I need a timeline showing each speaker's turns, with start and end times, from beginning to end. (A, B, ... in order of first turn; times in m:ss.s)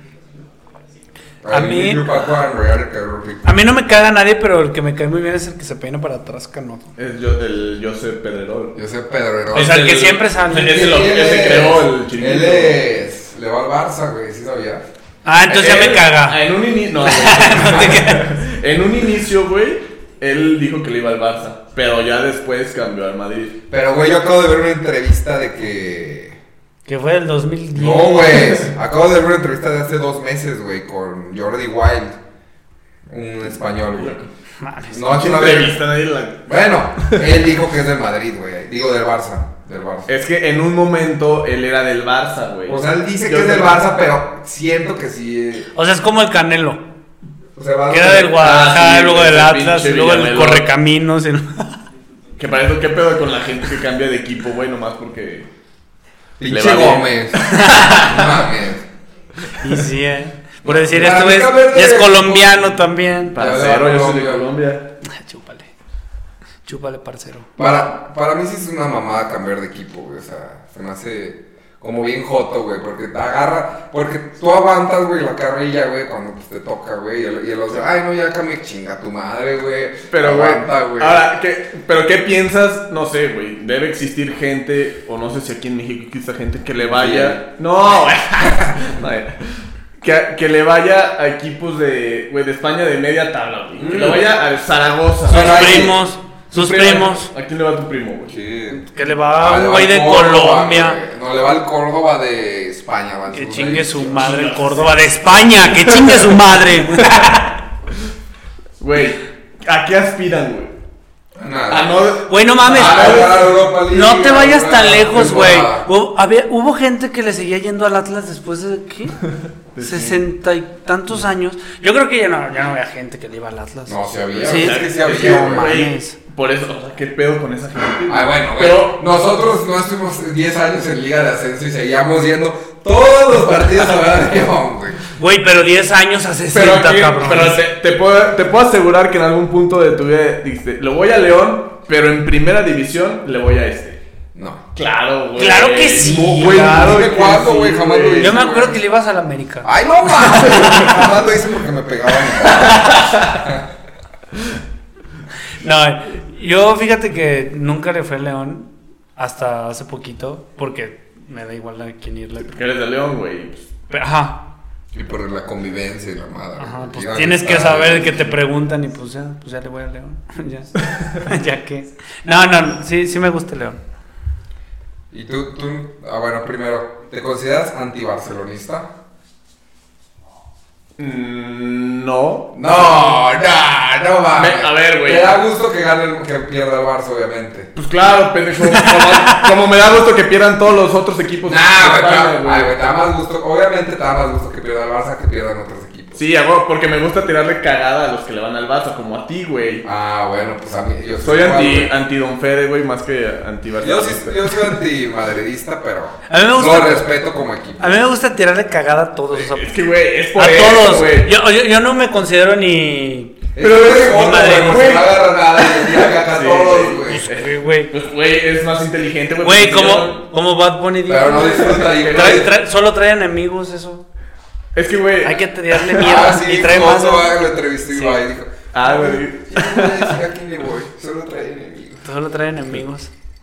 0:01.4-0:03.5 A
0:01.5-0:02.1 B
0:03.4-0:06.9 B
0:07.0-0:08.8 C
0:08.7-0:09.8 A
0:09.5-0:12.8 C
0:09.5-0:10.9 B
0:10.5-0:14.8 A
0:15.2-0:16.4 B
0:15.5-0:23.6 C
0:17.0-0:18.2 B
0:23.7-0:26.4 A
0:26.9-0:28.7 B
0:27.8-0:32.2 A
0:33.1-0:34.2 A
0:34.0-0:34.3 C
0:34.6-0:35.0 B
0:34.9-0:35.8 A
0:35.1-0:37.4 C
0:36.5-0:40.1 A
0:40.1-0:43.8 C
0:42.7-0:45.7 A
0:45.7-0:46.8 B
0:47.6-0:48.4 A
0:47.9-0:51.8 B
0:48.2-0:50.7 C
0:52.4-0:55.5 C
0:56.4-0:58.8 A
0:56.5-0:58.1 C
0:57.4-0:58.2 B
0:59.6-1:03.4 B
1:00.6-1:02.8 A
1:03.3-1:04.5 A
1:03.3-1:04.9 C
1:05.0-1:05.7 B
1:06.6-1:07.6 B
1:07.6-1:21.2 A
1:20.1-1:35.9 C
1:26.9-1:27.4 A
1:33.8-1:34.2 A
1:35.3-1:36.0 A
1:35.3-1:37.3 B
1:36.5-1:38.4 C
1:38.3-1:38.8 A
1:38.7-1:41.0 B
1:39.4-1:44.2 A
1:43.3-1:47.6 B
1:44.0-1:46.4 C
1:47.0-1:47.3 C
1:48.8-1:50.7 C
1:51.4-1:52.1 A
1:51.7-1:53.5 C
1:52.3-1:59.2 B
1:52.6-1:55.9 A
1:59.7-2:00.2 C
1:59.8-2:06.2 B
2:03.9-2:05.8 A
2:04.4-2:09.0 C
2:08.1-2:15.0 A
2:15.2-2:17.6 B
2:16.5-2:24.0 C
2:24.3-2:24.6 A
2:24.7-2:28.4 C
2:25.4-2:27.5 B
2:26.0-2:28.8 A
2:28.2-2:30.9 B
2:29.6-2:33.6 A
2:32.5-2:33.4 C
2:35.6-2:42.6 B
2:42.4-2:43.7 C
2:43.9-2:44.4 B
2:44.9-2:48.4 A
2:46.6-2:53.8 B
2:55.1-2:58.9 A
3:01.0-3:03.2 C
3:02.5-3:07.7 A
3:04.4-3:05.4 C
3:07.8-3:12.7 C
3:08.6-3:09.5 B
3:11.4-3:16.2 A
3:16.1-3:19.8 C
3:19.8-3:21.9 A
3:21.2-3:24.7 C
3:23.8-3:28.0 A
3:26.3-3:27.1 B
3:27.8-3:29.8 B
3:29.3-3:31.3 C
3:30.3-3:33.5 B
3:33.6-3:37.2 A
3:33.6-3:40.2 C
3:34.0-3:34.8 B
3:37.1-3:37.9 B
3:39.4-3:44.0 B
3:41.1-3:42.5 A
3:41.4-3:42.4 C
3:44.7-3:46.3 C
3:45.2-3:47.4 B
3:46.0-3:52.0 A
3:47.9-3:48.2 B
3:48.7-3:50.2 C
3:52.0-3:53.1 B